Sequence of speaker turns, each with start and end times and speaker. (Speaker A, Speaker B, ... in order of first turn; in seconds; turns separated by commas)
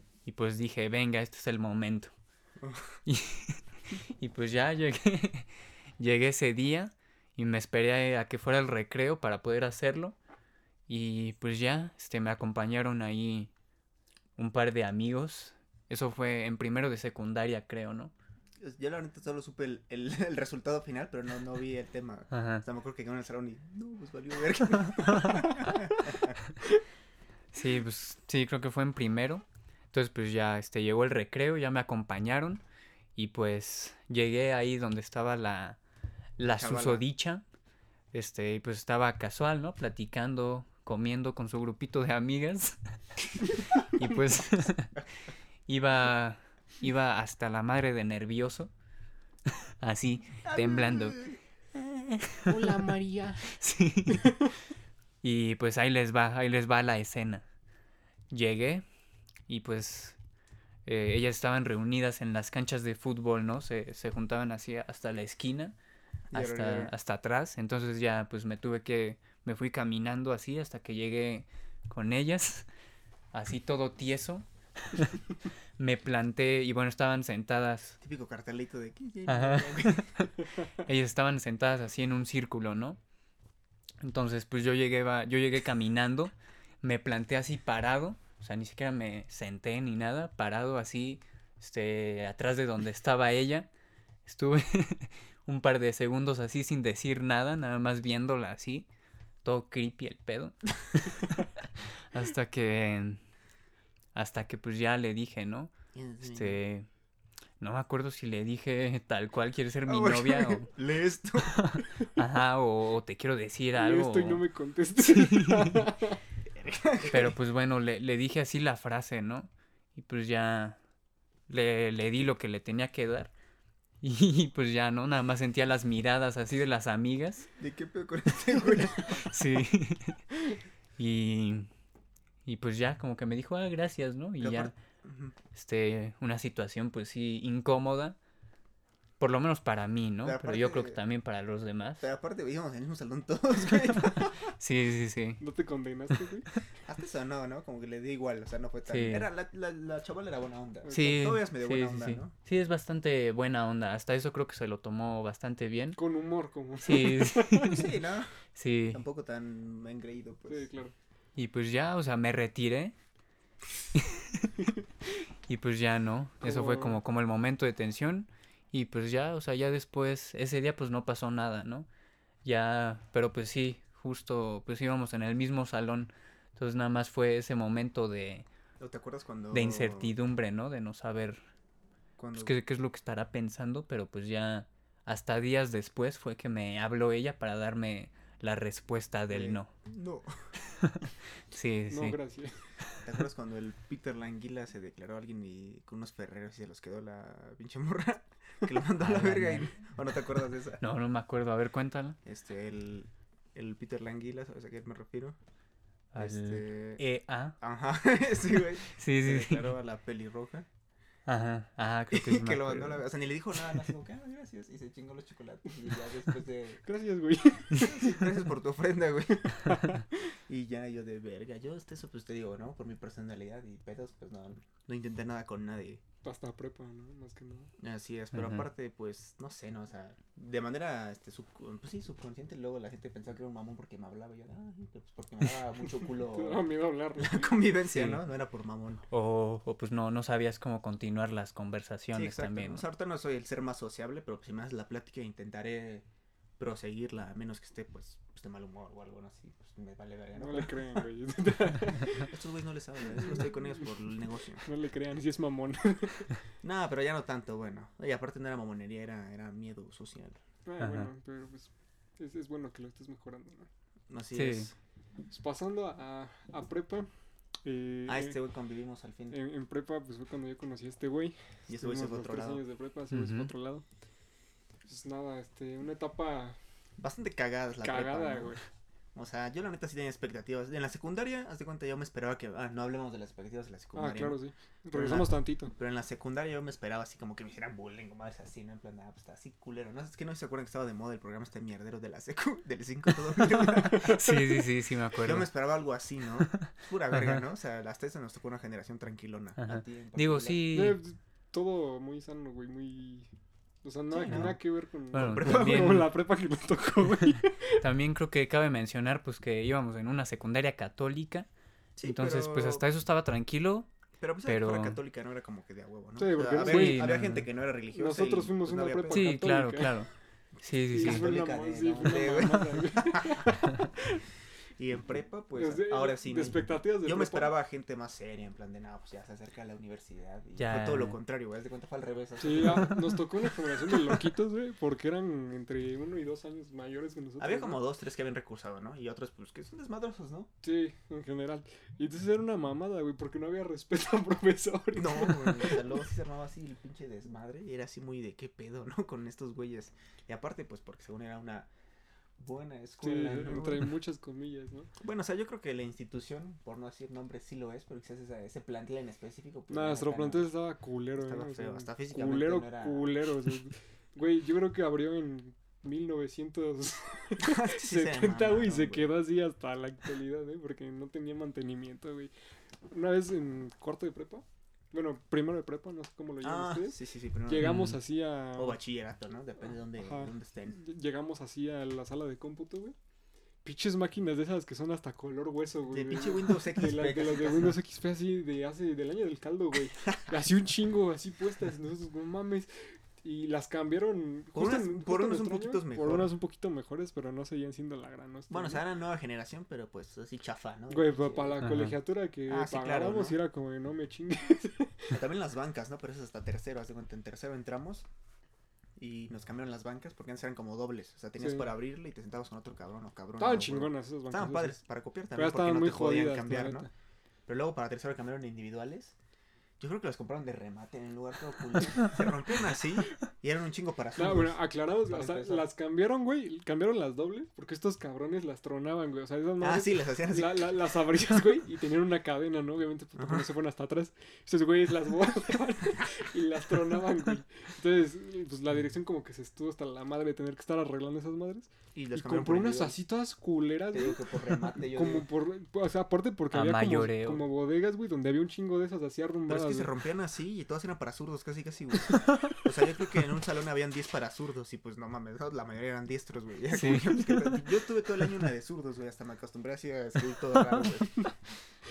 Speaker A: 0.2-2.1, Speaker B: 2.6-2.9, Speaker A: 3.0-10.2, Speaker A: 10.9-13.5, Speaker A: 14.4-18.1, Speaker B: 18.6-26.4, Speaker A: 22.3-22.6, Speaker A: 25.0-25.7, Speaker A: 27.5-32.6, Speaker A: 33.1-35.8, Speaker A: 36.4-37.4, Speaker B: 36.5-37.0, Speaker A: 38.1-42.8, Speaker A: 43.5-44.9, Speaker A: 45.7-48.7, Speaker A: 49.8-51.2, Speaker B: 50.4-51.4, Speaker A: 51.7-52.8, Speaker C: 52.5-53.6, Speaker A: 53.4-54.3, Speaker A: 55.2-57.4, Speaker A: 58.3-58.8, Speaker A: 59.5-60.2, Speaker A: 60.9-65.8, Speaker B: 66.3-66.9, Speaker A: 66.3-72.7, Speaker A: 73.3-75.2, Speaker A: 75.8-78.0, Speaker B: 78.0-80.3, Speaker A: 79.3-83.0, Speaker A: 84.0-93.7, Speaker A: 94.2-98.9, Speaker A: 99.4-103.2, Speaker A: 104.1-106.9, Speaker B: 105.9-106.6, Speaker A: 107.6-110.7, Speaker B: 109.9-111.8, Speaker A: 111.4-114.4, Speaker C: 113.7-116.2, Speaker A: 115.1-115.8, Speaker B: 116.5-117.3, Speaker A: 117.0-120.8, Speaker A: 121.5-123.3, Speaker A: 124.0-127.5, Speaker B: 127.6-129.3, Speaker A: 129.0-130.2, Speaker A: 131.0-131.7, Speaker A: 132.4-134.7, Speaker B: 134.4-135.3, Speaker A: 135.5-138.2, Speaker A: 139.2-142.0, Speaker B: 140.2-141.0, Speaker B: 142.0-144.5, Speaker A: 144.2-145.4, Speaker C: 145.4-146.5, Speaker B: 146.8-152.3, Speaker A: 148.9-149.3, Speaker A: 150.9-156.0, Speaker C: 156.0-157.8, Speaker A: 156.8-157.8, Speaker B: 157.6-158.3, Speaker A: 158.5-159.0, Speaker B: 158.9-160.7, Speaker C: 160.5-160.9, Speaker A: 161.4-162.9, Speaker A: 163.9-164.5, Speaker A: 165.5-171.9, Speaker C: 166.4-167.0, Speaker A: 172.4-178.4, Speaker B: 178.8-180.1, Speaker A: 179.5-181.4, Speaker B: 182.2-182.5, Speaker A: 182.3-189.7, Speaker B: 189.3-190.3, Speaker A: 190.7-192.2, Speaker C: 191.9-192.6, Speaker B: 193.0-200.8, Speaker A: 199.0-199.7, Speaker A: 200.8-202.2, Speaker B: 202.2-205.4, Speaker A: 206.1-207.6, Speaker B: 206.2-207.0, Speaker B: 207.6-210.7, Speaker A: 208.9-209.7, Speaker A: 211.3-213.0, Speaker B: 212.1-216.8, Speaker C: 216.8-218.3, Speaker B: 217.7-219.8, Speaker C: 219.6-220.0, Speaker B: 220.5-226.0, Speaker C: 226.2-227.7, Speaker B: 227.8-236.6, Speaker A: 228.3-228.7, Speaker C: 236.0-237.6, Speaker B: 237.2-239.0, Speaker A: 237.9-238.2, Speaker A: 239.1-242.8, Speaker B: 242.1-246.0, Speaker B: 246.6-251.1, Speaker C: 250.3-252.4, Speaker B: 252.2-254.7, Speaker C: 253.1-253.8, Speaker C: 254.6-256.4, Speaker B: 256.6-260.4, Speaker C: 260.6-263.7, Speaker A: 260.8-261.1, Speaker B: 264.1-264.7, Speaker A: 264.3-264.7, Speaker C: 265.3-267.1, Speaker C: 267.6-268.4, Speaker B: 268.1-269.4, Speaker C: 269.3-273.8, Speaker B: 271.7-272.6, Speaker A: 273.1-273.5, Speaker C: 274.9-276.6, Speaker B: 277.0-278.6, Speaker C: 277.8-278.6, Speaker B: 279.1-284.4, Speaker C: 283.9-285.7, Speaker B: 284.9-294.3, Speaker A: 293.4-295.5, Speaker B: 295.2-300.6, Speaker A: 296.5-297.4, Speaker A: 299.6-301.0, Speaker C: 300.7-303.3, Speaker C: 303.8-307.8, Speaker B: 304.1-304.6, Speaker A: 304.3-304.6, Speaker A: 305.1-306.1, Speaker B: 305.1-306.1, Speaker A: 307.8-311.5, Speaker B: 312.0-312.9, Speaker A: 312.0-313.9, Speaker B: 314.2-319.4, Speaker A: 314.4-315.0, Speaker C: 316.2-317.2, Speaker A: 316.6-317.5, Speaker C: 317.9-320.0, Speaker A: 319.1-320.1, Speaker A: 320.6-321.3, Speaker B: 320.9-323.5, Speaker C: 320.9-324.2, Speaker B: 324.8-334.2, Speaker C: 325.5-327.5, Speaker A: 330.6-331.2, Speaker C: 332.4-337.8, Speaker B: 337.4-340.5, Speaker C: 340.6-346.0, Speaker B: 344.9-351.7, Speaker B: 352.4-353.9, Speaker C: 353.0-354.9, Speaker B: 355.0-360.5, Speaker C: 359.7-372.3, Speaker B: 361.2-363.1, Speaker B: 367.4-369.1, Speaker C: 372.9-378.8, Speaker B: 376.4-377.7, Speaker A: 377.6-378.0, Speaker B: 378.5-380.8, Speaker C: 379.9-382.9, Speaker C: 383.6-398.8, Speaker B: 385.9-387.8, Speaker B: 394.5-396.3, Speaker B: 398.5-401.6, Speaker C: 400.9-405.2, Speaker A: 401.6-401.9, Speaker B: 402.5-403.4, Speaker B: 405.1-408.1, Speaker B: 409.0-416.9, Speaker C: 411.4-411.7, Speaker C: 413.4-414.8, Speaker C: 415.3-416.9, Speaker B: 417.5-419.1, Speaker B: 419.8-425.7, Speaker C: 424.2-444.2, Speaker B: 429.6-430.8, Speaker B: 433.2-433.5, Speaker B: 441.9-443.0, Speaker B: 443.9-445.3, Speaker C: 444.8-449.9, Speaker A: 446.5-447.4, Speaker B: 449.5-461.3, Speaker A: 456.7-457.6